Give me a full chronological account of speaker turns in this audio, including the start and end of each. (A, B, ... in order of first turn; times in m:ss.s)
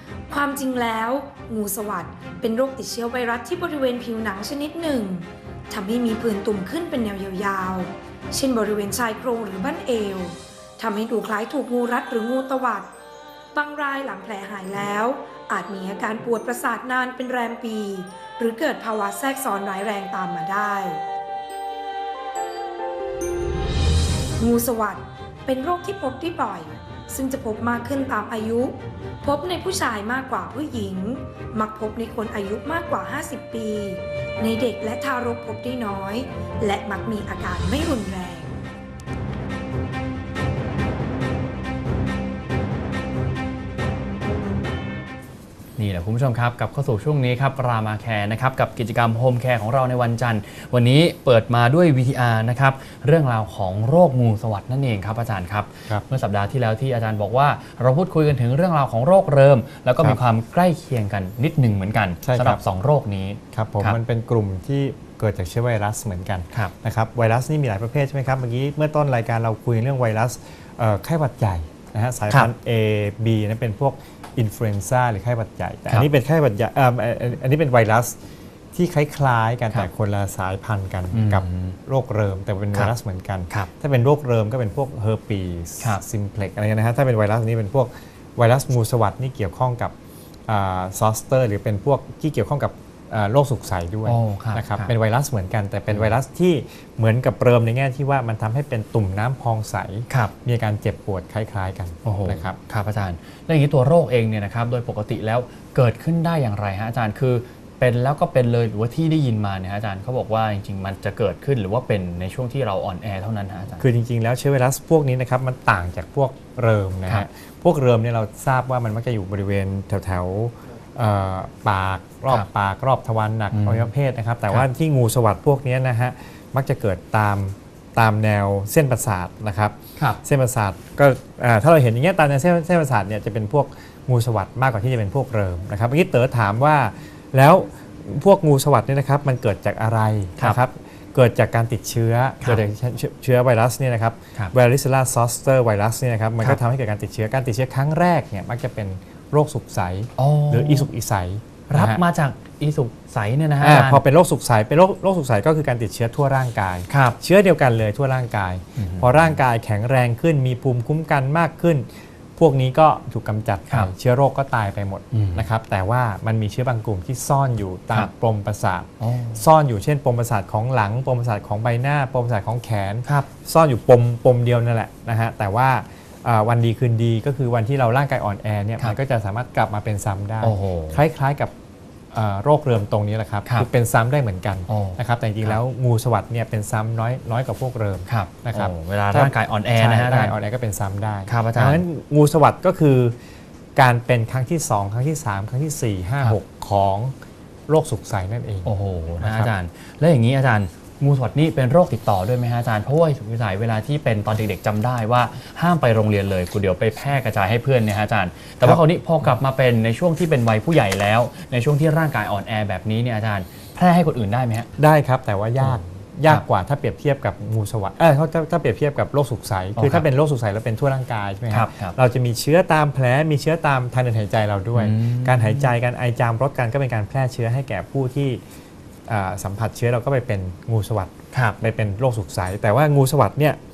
0:00.3-0:12.9 A
0:13.5-0:21.0 A
0:24.4-0:38.5 A
0:45.8-1:04.0 B
1:02.2-1:02.6 C
1:03.5-1:18.2 C
1:18.7-1:29.9 C
1:21.1-1:21.8 B
1:30.5-1:42.6 C
1:34.0-1:34.9 B
1:35.9-1:36.1 B
1:42.0-1:53.8 B
1:53.8-2:32.0 C
2:03.5-2:03.9 B
2:30.2-2:30.9 B
2:31.7-2:34.0 B
2:33.6-3:01.5 C
2:36.9-2:37.2 B
2:38.8-2:39.4 B
2:45.1-2:45.5 B
2:49.0-2:49.4 B
3:00.4-3:01.0 B
3:02.1-3:13.2 C
3:04.7-3:05.6 B
3:08.1-3:10.4 B
3:11.3-3:11.8 B
3:13.8-3:17.1 C
3:17.7-3:19.5 C
3:18.6-3:34.7 B
3:34.8-3:48.4 C
3:35.6-3:36.4 B
3:39.8-3:40.1 B
3:41.5-3:42.0 B
3:44.8-3:45.7 B
3:49.1-3:53.6 C
3:51.3-3:51.6 B